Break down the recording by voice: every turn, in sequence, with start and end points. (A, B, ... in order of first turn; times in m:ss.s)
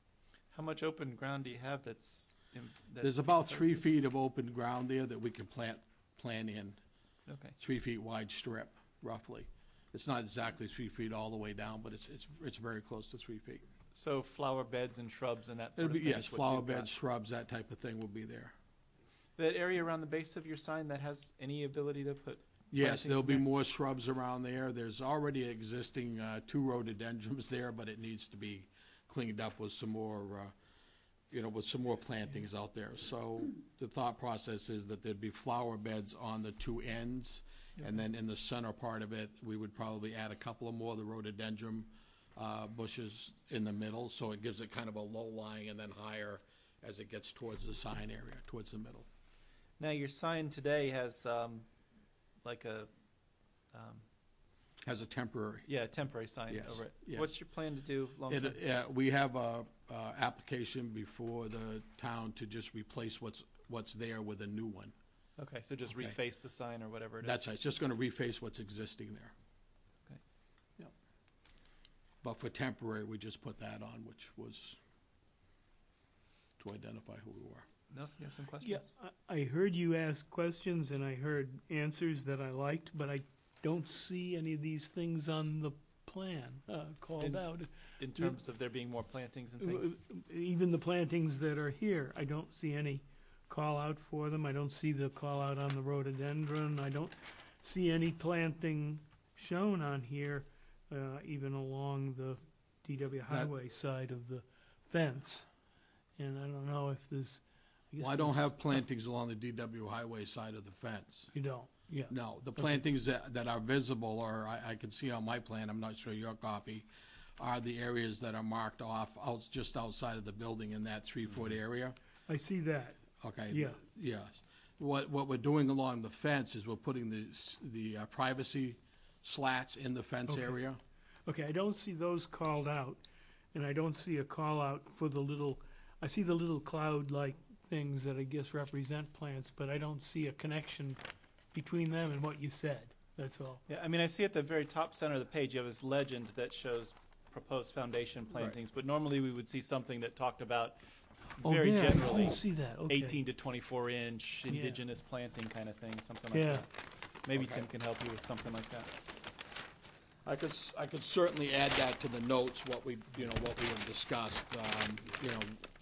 0:00.5-0:03.9 A
0:03.0-0:06.8 B
0:07.3-0:07.6 A
0:07.6-0:13.6 B
0:13.9-0:16.9 A
0:15.8-0:18.5 B
0:19.4-0:23.4 A
0:22.7-0:30.5 B
0:31.3-0:49.1 B
0:49.8-0:51.7 A
0:52.4-0:52.9 A
0:53.7-0:54.0 A
0:54.8-0:55.7 B
0:55.7-0:58.6 A
0:56.5-0:57.4 B
0:58.3-1:04.9 B
1:05.4-1:07.4 A
1:07.2-1:09.3 B
1:12.2-1:14.8 B
1:16.6-1:17.7 B
1:17.9-1:18.9 A
1:18.6-1:28.3 C
1:27.2-1:29.9 A
1:29.6-1:45.5 C
1:46.2-1:48.7 C
1:48.0-1:51.3 B
1:51.3-1:52.8 C
1:52.1-1:56.9 B
1:57.4-2:02.0 B
2:02.3-2:03.8 C
2:03.2-2:10.8 B
2:10.3-2:10.5 C
2:11.3-2:21.0 C
2:21.5-2:23.6 C
2:23.7-2:30.8 A
2:31.4-2:36.7 A
2:31.4-2:33.2 C
2:34.5-2:34.8 C
2:36.3-2:36.6 C
2:37.2-2:38.9 A
2:37.3-2:37.7 B
2:40.2-2:45.6 B